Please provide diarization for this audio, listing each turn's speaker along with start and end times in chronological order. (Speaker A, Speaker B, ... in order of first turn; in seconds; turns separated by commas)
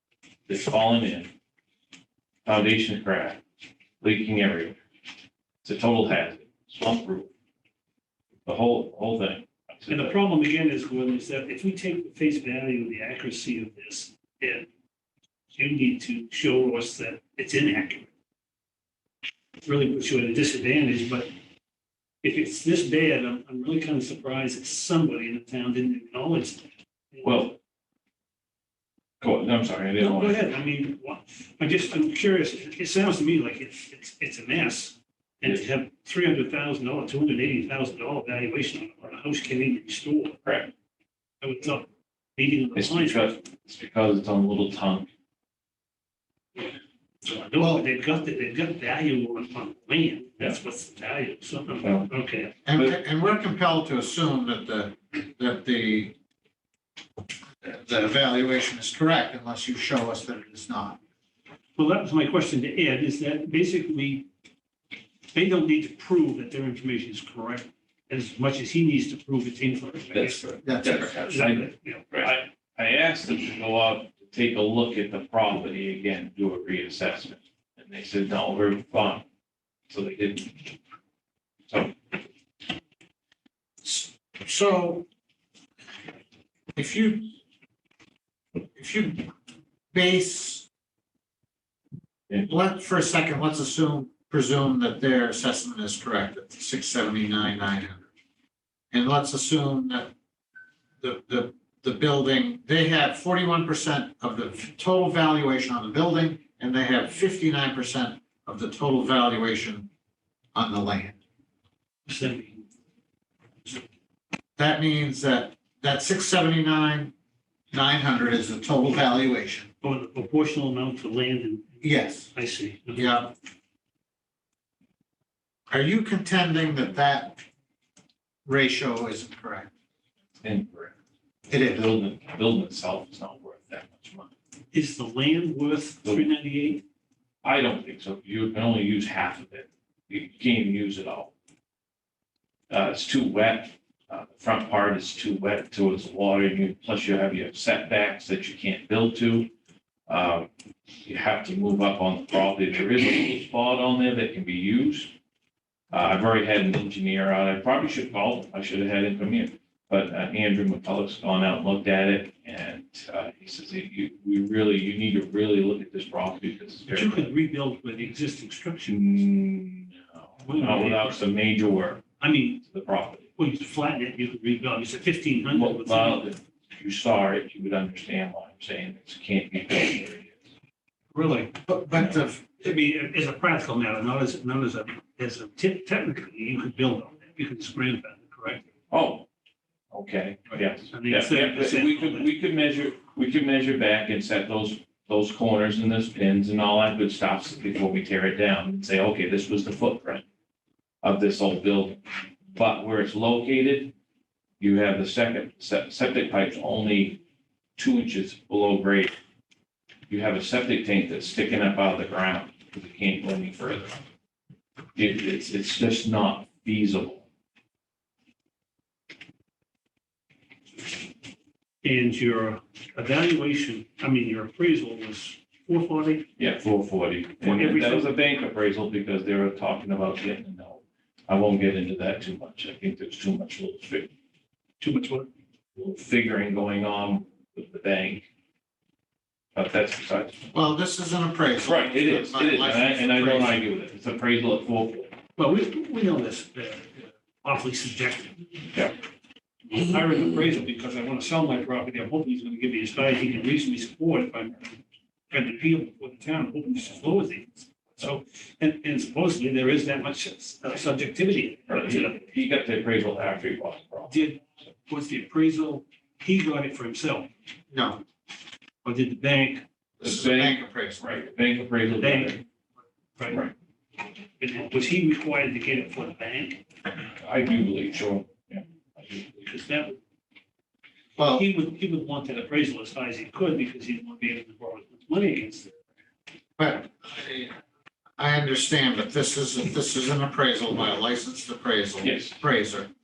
Speaker A: 0.5-1.3, Speaker A: 2.5-3.4, Speaker A: 4.0-4.8, Speaker A: 5.6-7.3, Speaker A: 8.4-10.2, Speaker B: 9.9-14.7, Speaker B: 15.5-18.1, Speaker B: 19.6-21.3, Speaker B: 22.2-27.4, Speaker A: 27.2-27.6, Speaker A: 29.2-30.4, Speaker B: 30.0-40.4, Speaker A: 40.4-40.7, Speaker B: 41.4-43.4, Speaker A: 42.7-45.1, Speaker B: 47.2-52.5, Speaker C: 47.6-47.8, Speaker A: 51.8-52.1, Speaker C: 52.6-56.1, Speaker C: 57.6-61.0, Speaker B: 61.8-64.3, Speaker B: 65.3-70.5, Speaker A: 70.1-79.2, Speaker C: 70.6-71.2, Speaker B: 71.2-72.3, Speaker A: 79.9-80.7, Speaker A: 81.7-82.0, Speaker C: 83.8-85.0, Speaker C: 86.7-87.3, Speaker C: 88.7-89.3, Speaker C: 89.9-90.7, Speaker C: 92.4-98.1, Speaker C: 98.9-100.1, Speaker C: 101.0-109.9, Speaker C: 110.5-111.2, Speaker B: 112.1-112.7, Speaker C: 114.6-117.1, Speaker C: 117.7-119.7, Speaker B: 119.8-123.1, Speaker C: 121.8-122.3, Speaker C: 122.9-123.3, Speaker C: 125.7-127.4, Speaker C: 128.4-129.7, Speaker A: 130.4-130.9, Speaker C: 131.5-131.9, Speaker A: 131.5-134.3, Speaker B: 134.7-136.8, Speaker A: 137.4-141.3, Speaker A: 142.7-149.5, Speaker A: 150.1-150.5, Speaker A: 151.0-155.1, Speaker A: 155.9-167.3, Speaker B: 166.9-169.0, Speaker A: 168.8-173.2, Speaker B: 170.4-171.2, Speaker B: 172.2-172.6, Speaker B: 173.4-176.3, Speaker A: 175.5-180.4, Speaker B: 181.1-188.6, Speaker C: 181.7-182.6, Speaker A: 188.9-189.2, Speaker A: 189.9-200.2, Speaker B: 190.9-192.3, Speaker A: 201.0-203.9, Speaker A: 204.6-207.2, Speaker A: 207.8-209.1, Speaker A: 210.1-213.9, Speaker A: 214.9-217.2, Speaker B: 221.8-226.3, Speaker A: 226.4-234.1, Speaker B: 227.4-228.1, Speaker B: 234.8-235.3, Speaker A: 235.8-238.3, Speaker A: 239.5-240.4, Speaker C: 240.5-243.6, Speaker A: 241.6-245.1, Speaker B: 245.4-248.5, Speaker B: 249.7-254.8, Speaker B: 255.3-262.2, Speaker A: 261.7-264.3, Speaker B: 264.1-267.3, Speaker C: 267.7-268.0, Speaker B: 268.8-269.6, Speaker C: 270.0-271.0, Speaker A: 270.0-272.4, Speaker B: 272.0-272.4, Speaker B: 273.2-273.4, Speaker A: 273.3-273.5, Speaker B: 274.4-276.6, Speaker A: 277.1-278.6, Speaker B: 279.3-280.0, Speaker C: 281.2-281.4, Speaker B: 281.3-285.7, Speaker C: 286.6-287.5, Speaker C: 288.2-292.9, Speaker A: 292.0-292.3